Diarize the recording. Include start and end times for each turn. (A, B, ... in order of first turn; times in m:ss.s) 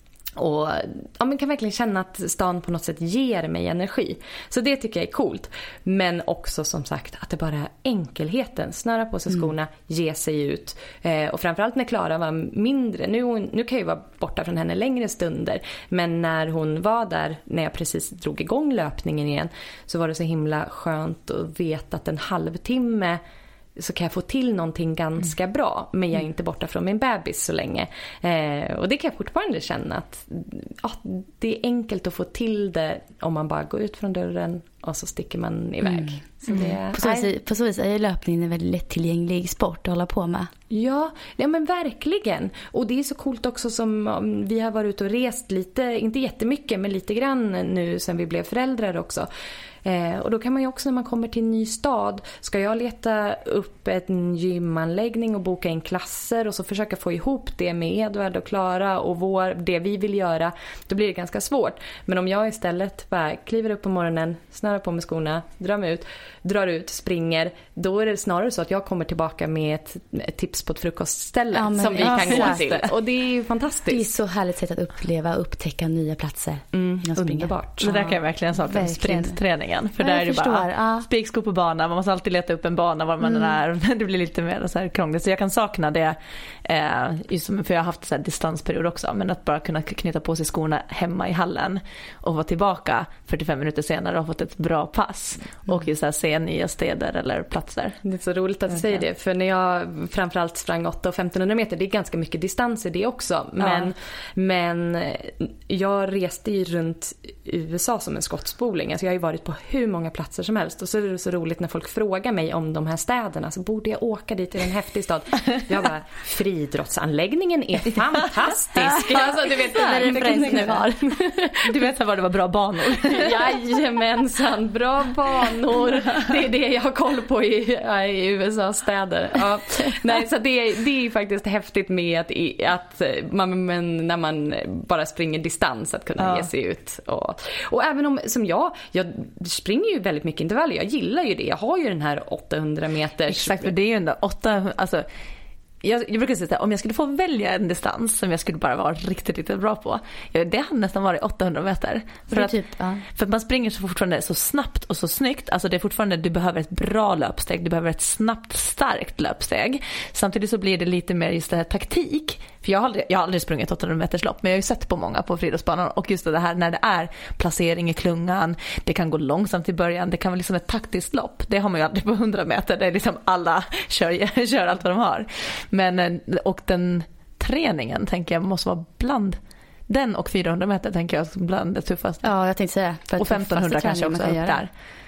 0:00.4-0:23.2 A
0:23.8-0:37.3 A
0:36.6-0:40.5 B
0:40.7-0:49.3 A
0:49.8-1:14.1 A
1:11.5-1:12.8 B
1:12.0-1:12.6 C
1:13.9-1:19.4 B
1:16.7-1:17.9 A
1:17.8-1:38.0 C
1:20.0-1:21.1 B
1:38.0-2:01.7 A
1:43.6-1:43.8 C
1:59.7-2:01.1 B
1:59.9-2:00.8 C
2:01.6-2:03.6 C
2:03.0-2:23.7 A
2:16.2-2:16.5 C
2:23.3-2:25.0 C
2:25.8-3:02.2 C
2:32.3-2:33.0 B
3:02.2-3:04.7 B
3:03.2-3:04.7 C